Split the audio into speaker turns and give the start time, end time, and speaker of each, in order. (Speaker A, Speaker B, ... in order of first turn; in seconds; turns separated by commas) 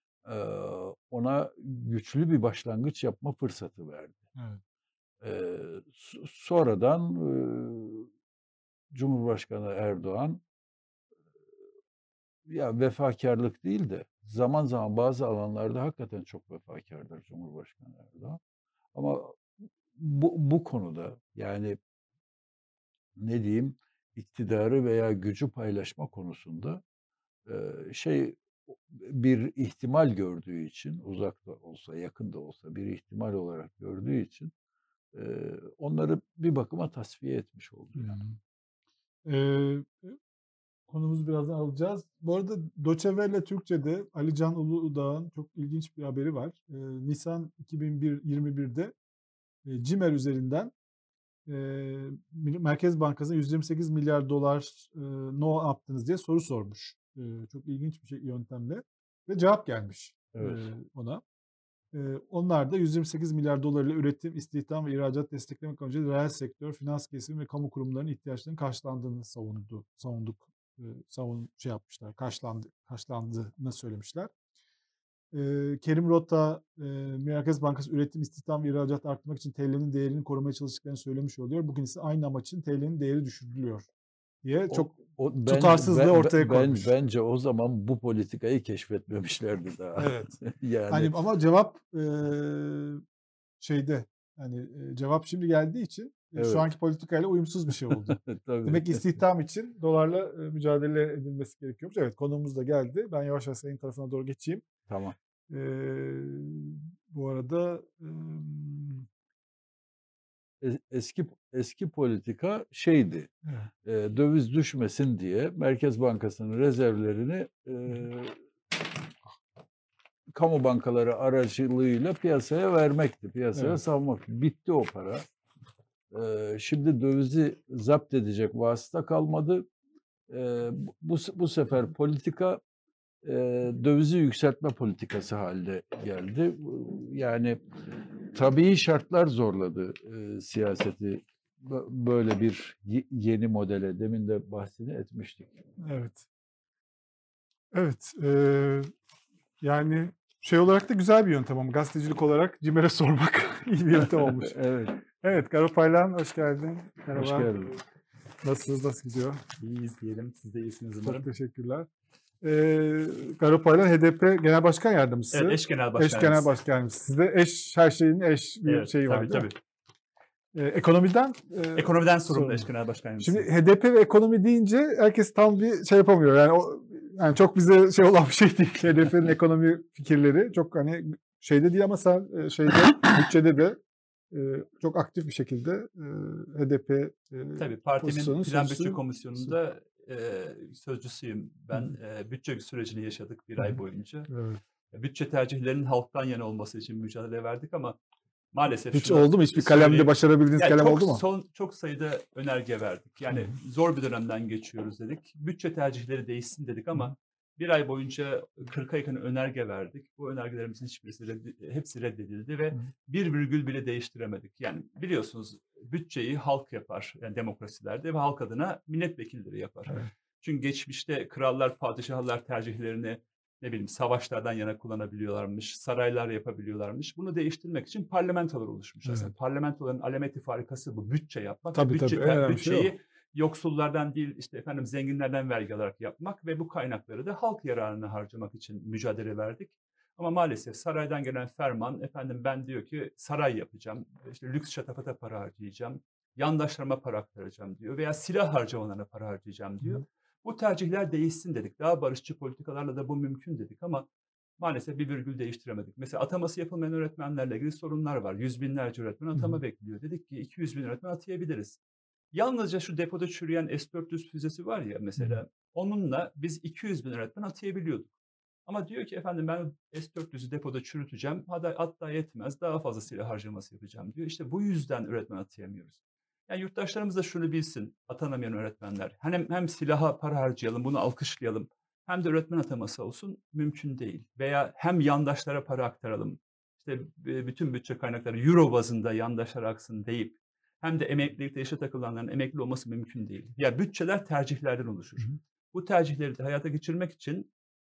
Speaker A: 0.2-4.2, Speaker B: 4.3-4.6, Speaker A: 5.2-8.1, Speaker A: 8.9-10.4, Speaker A: 12.4-18.4, Speaker A: 18.9-21.8, Speaker A: 23.1-26.8, Speaker A: 27.5-34.5, Speaker A: 35.1-38.2, Speaker B: 38.0-38.4, Speaker B: 39.2-40.2, Speaker B: 40.9-48.9, Speaker B: 49.6-50.7, Speaker B: 51.5-61.2, Speaker A: 60.3-60.6, Speaker B: 61.9-74.3, Speaker B: 75.3-83.9, Speaker B: 84.4-86.9, Speaker A: 84.7-91.1, Speaker B: 90.0-93.0, Speaker B: 93.6-104.6, Speaker A: 96.3-96.7, Speaker A: 97.9-99.0, Speaker A: 104.9-105.1, Speaker B: 105.5-109.1, Speaker A: 110.6-113.3, Speaker A: 113.8-118.4, Speaker A: 120.3-125.2, Speaker A: 126.1-129.7, Speaker A: 130.3-132.6, Speaker A: 133.2-137.6, Speaker A: 138.3-145.6, Speaker B: 145.8-146.2, Speaker B: 147.7-148.9, Speaker B: 149.6-154.6, Speaker A: 154.0-155.0, Speaker B: 155.1-157.5, Speaker A: 157.1-157.7, Speaker B: 158.4-159.4, Speaker C: 159.6-161.2, Speaker B: 161.0-161.9, Speaker B: 162.4-169.5, Speaker C: 165.3-166.5, Speaker C: 168.6-169.5, Speaker B: 170.5-172.7, Speaker C: 171.8-173.5, Speaker B: 173.2-183.8, Speaker B: 184.3-189.5, Speaker C: 187.6-194.3, Speaker B: 193.6-194.6, Speaker C: 194.9-198.0, Speaker C: 198.5-254.1, Speaker B: 198.9-201.2, Speaker B: 229.0-229.3, Speaker B: 231.7-232.9, Speaker C: 254.6-261.8, Speaker C: 262.3-268.1, Speaker C: 268.6-297.5